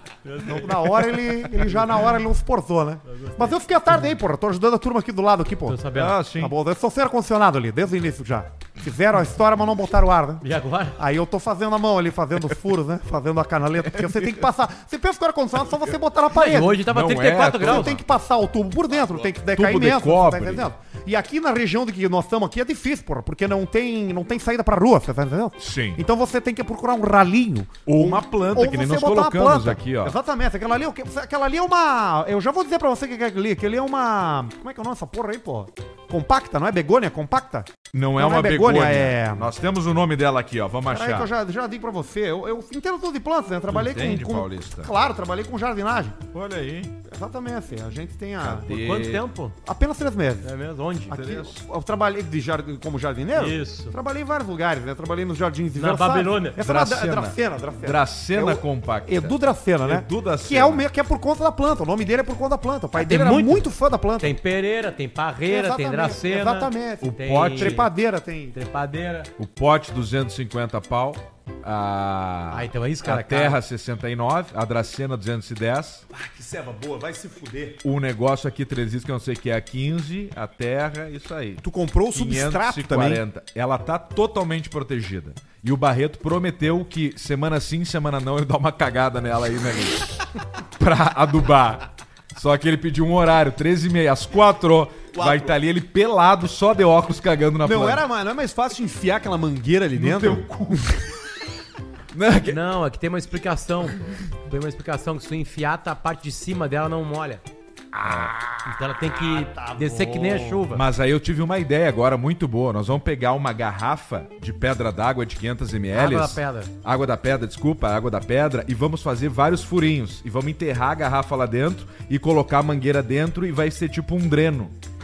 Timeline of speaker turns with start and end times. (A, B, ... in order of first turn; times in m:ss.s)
0:00.2-0:01.2 A
0:00.4-0:10.4 B
0:03.1-0:03.6 A
0:05.7-0:06.2 A
0:05.9-0:06.5 C
0:10.4-0:11.0 A
0:11.0-0:16.8 B
0:14.0-0:14.5 C
0:16.3-0:18.0 A
0:16.6-0:18.0 C
0:17.6-0:39.5 B
0:19.4-0:20.7 C
0:25.6-0:26.0 C
0:27.9-0:30.2 C
0:37.9-0:41.3 C
0:40.9-0:46.2 B
0:43.7-0:44.9 C
0:46.3-0:47.0 C
0:47.1-0:48.7 B
0:48.4-0:49.2 C
0:48.6-0:49.6 A
0:49.6-0:50.5 B
0:50.4-0:51.2 A
0:51.1-1:04.3 B
0:51.1-0:51.6 C
0:53.4-0:54.0 A
0:55.8-0:56.6 A
0:56.6-1:00.9 C
1:03.0-1:07.9 A
1:05.5-1:08.6 B
1:07.0-1:07.9 C
1:08.5-1:09.3 A
1:09.4-1:16.0 C
1:12.5-1:13.6 A
1:16.1-1:17.8 B
1:17.8-1:30.3 C
1:21.6-1:23.2 B
1:30.8-1:38.0 C
1:35.2-1:35.5 B
1:37.6-1:41.0 B
1:39.9-1:40.8 C
1:42.1-1:42.6 C
1:42.4-1:47.4 A
1:48.0-1:48.6 C
1:48.0-1:48.3 B
1:48.6-1:50.9 A
1:49.0-1:50.6 B
1:50.7-2:04.8 C
1:55.9-1:56.7 A